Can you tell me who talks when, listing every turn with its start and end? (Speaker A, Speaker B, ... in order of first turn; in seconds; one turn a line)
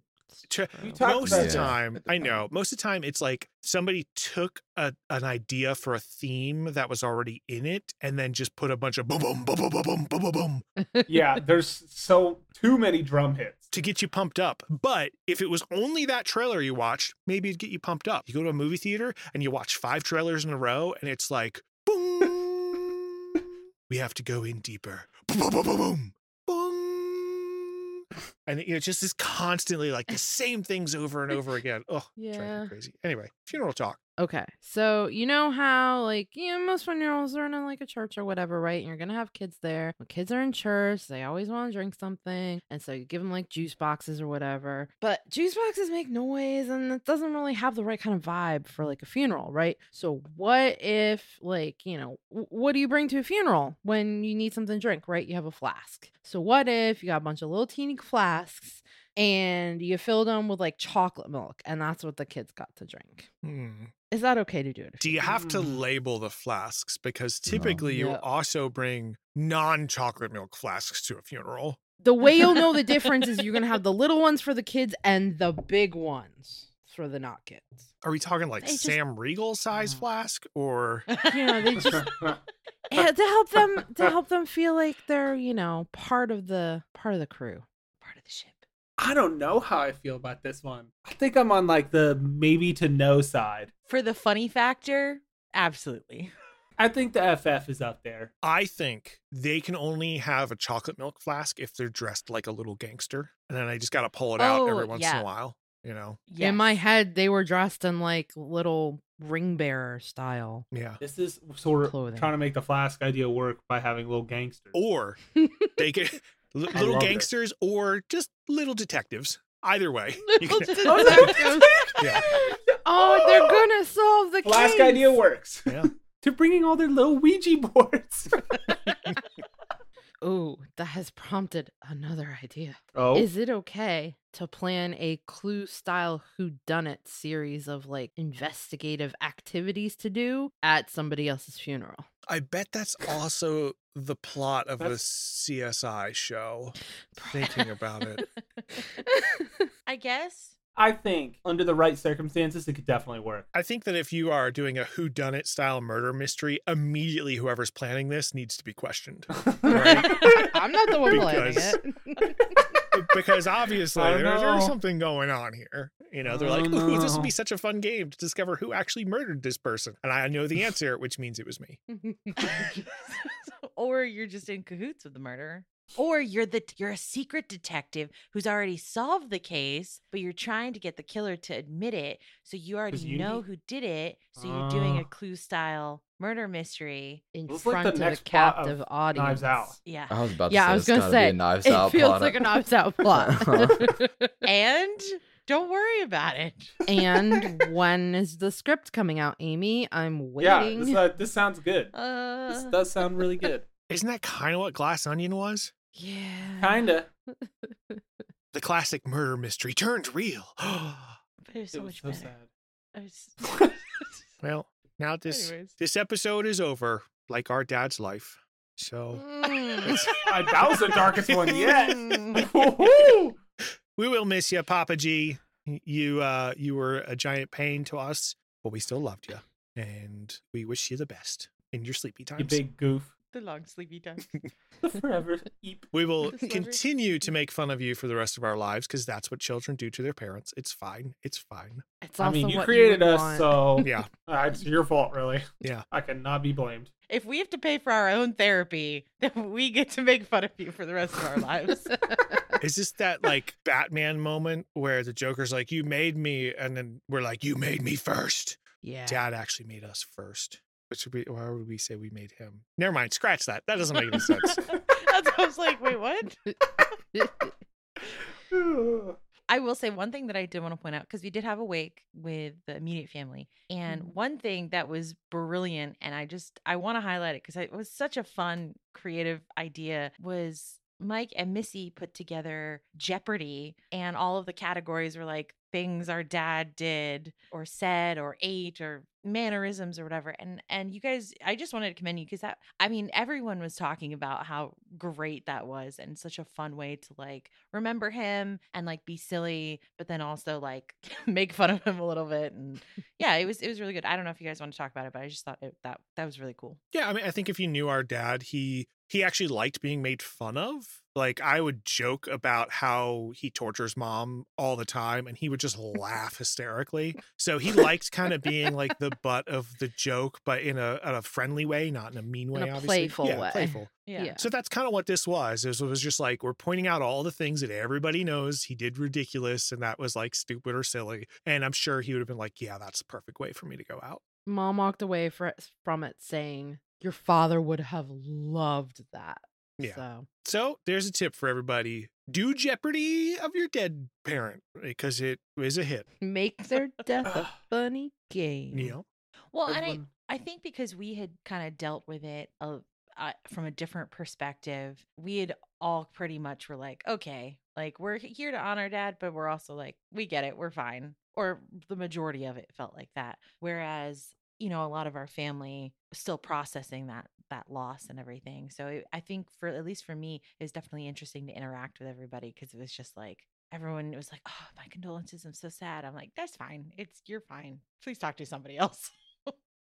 Speaker A: 0.3-1.0
Speaker B: 0.5-10.7
Speaker C: 0.8-1.8
Speaker D: 1.2-2.5
Speaker A: 10.8-11.2
Speaker C: 11.1-13.7
Speaker B: 13.7-34.0
Speaker A: 32.2-32.7
Speaker A: 34.2-63.3
Speaker B: 63.4-63.9
Speaker A: 64.1-65.4
Speaker B: 65.0-71.8
Speaker C: 65.3-65.8
Speaker D: 67.5-67.8
Speaker A: 67.8-68.2
Speaker A: 72.0-77.9
Speaker B: 78.0-81.2
Speaker A: 78.7-78.9
Speaker E: 78.7-78.9
Speaker E: 81.1-81.7
Speaker A: 81.2-82.2
Speaker C: 81.8-82.4
Speaker A: 82.9-87.7
Speaker E: 88.0-88.6
Speaker C: 89.0-93.7
Speaker E: 93.9-96.3
Speaker C: 96.8-98.3
Speaker B: 98.4-106.2
Speaker E: 104.4-105.3
Speaker E: 106.3-106.8
Speaker A: 106.4-110.7
Speaker B: 110.7-111.0
Speaker C: 111.0-114.8
Speaker A: 111.8-112.3
Speaker B: 114.7-115.2
Speaker A: 115.4-115.7
Speaker B: 115.8-122.3
Speaker C: 116.8-117.3
Speaker A: 120.3-125.2
Speaker C: 120.8-123.6
Speaker C: 124.4-128.5
Speaker B: 128.9-129.2
Speaker A: 130.2-142.1
Speaker C: 132.9-133.3
Speaker B: 142.3-148.2
Speaker A: 147.2-147.6
Speaker A: 148.9-149.5
Speaker E: 149.9-150.6
Speaker C: 150.8-153.5
Speaker B: 153.5-161.8
Speaker C: 159.4-160.5
Speaker A: 159.7-162.5
Speaker E: 159.8-160.4
Speaker C: 161.1-161.4
Speaker B: 162.9-171.8
Speaker C: 163.9-164.8
Speaker C: 166.2-167.3
Speaker A: 171.9-172.7
Speaker E: 172.4-187.2
Speaker C: 182.9-183.4
Speaker C: 184.4-185.1
Speaker A: 187.3-189.8
Speaker C: 187.5-189.8
Speaker E: 189.9-190.2
Speaker D: 190.1-194.0
Speaker A: 190.5-194.3
Speaker E: 194.4-196.8
Speaker A: 196.9-201.0
Speaker C: 197.0-197.5
Speaker C: 200.4-201.9
Speaker E: 201.9-202.8
Speaker C: 202.5-203.7
Speaker B: 203.9-205.7
Speaker E: 206.0-206.7
Speaker C: 206.6-207.1
Speaker B: 208.5-211.2
Speaker E: 211.4-212.3
Speaker C: 211.7-212.5
Speaker E: 212.9-213.7
Speaker C: 213.4-213.8
Speaker B: 214.4-220.3
Speaker E: 215.3-215.7
Speaker A: 219.2-220.0
Speaker E: 219.7-220.1
Speaker C: 220.2-223.4
Speaker B: 221.0-222.4
Speaker E: 221.6-222.4
Speaker B: 224.0-232.6
Speaker C: 232.4-233.1
Speaker E: 233.3-234.3
Speaker C: 234.8-235.9
Speaker B: 235.9-241.8
Speaker A: 236.4-236.8
Speaker A: 242.0-243.9
Speaker C: 242.2-246.9
Speaker B: 243.8-244.1
Speaker E: 247.1-251.9
Speaker A: 251.9-252.4
Speaker B: 252.6-264.8
Speaker A: 258.8-259.2
Speaker E: 264.2-266.4
Speaker A: 267.1-267.5
Speaker C: 268.5-269.2
Speaker E: 269.5-306.8
Speaker B: 306.9-334.2
Speaker A: 322.5-324.5
Speaker E: 324.1-324.4
Speaker A: 334.5-340.3
Speaker B: 339.8-346.1
Speaker A: 346.2-349.0
Speaker C: 347.3-347.6
Speaker B: 348.7-349.1
Speaker E: 349.5-379.6
Speaker C: 349.7-350.1